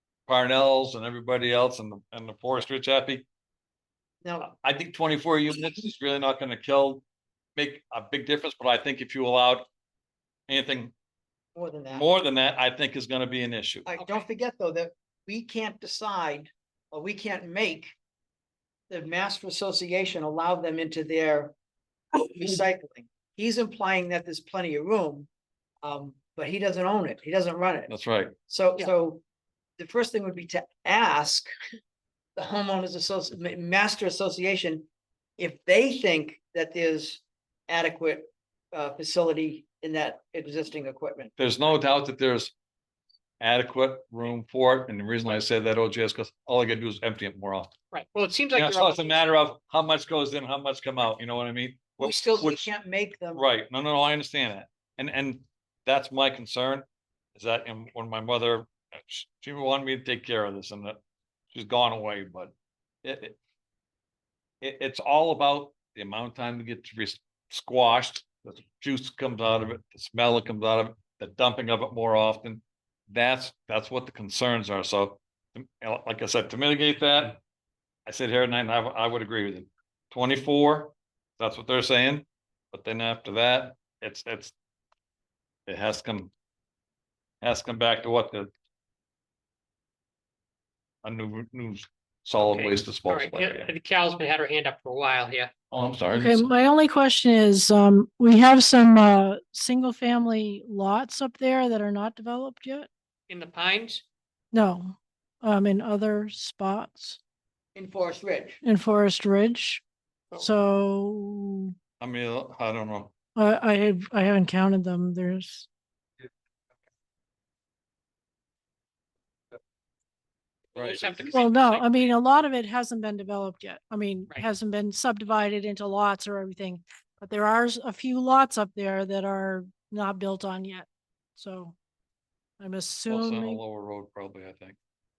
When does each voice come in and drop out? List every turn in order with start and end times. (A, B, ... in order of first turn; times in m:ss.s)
0:00.3-0:03.2 A
0:04.2-0:04.5 B
0:04.4-0:07.0 A
0:07.6-0:09.7 A
0:10.5-0:10.9 A
0:11.6-0:12.1 B
0:11.9-0:14.2 A
0:13.9-0:17.9 B
0:18.9-0:21.5 B
0:22.1-0:25.3 B
0:25.8-0:27.9 B
0:27.9-0:28.3 A
0:28.5-0:29.2 B
0:29.8-0:31.5 B
0:32.4-0:34.9 B
0:35.4-0:41.3 B
0:41.4-0:42.5 A
0:43.4-0:47.7 A
0:47.9-0:49.3 C
0:48.6-0:52.7 A
0:52.0-0:53.4 B
0:53.4-1:01.0 A
1:01.5-1:02.5 A
1:03.0-1:03.4 A
1:04.6-1:17.4 A
1:18.1-1:24.5 A
1:25.7-1:26.3 A
1:27.4-1:28.5 A
1:31.0-1:33.7 A
1:32.4-1:35.5 C
1:35.7-1:36.5 A
1:36.2-1:42.9 D
1:43.3-1:44.0 C
1:44.5-1:47.2 D
1:47.8-1:48.6 B
1:48.6-1:49.8 D
1:50.4-1:51.7 D
1:52.0-1:53.1 A
1:53.4-1:55.7 D
2:00.7-2:02.0 C
2:00.8-2:01.4 A
2:01.3-2:11.8 D
2:12.6-2:13.6 D
2:13.1-2:14.8 A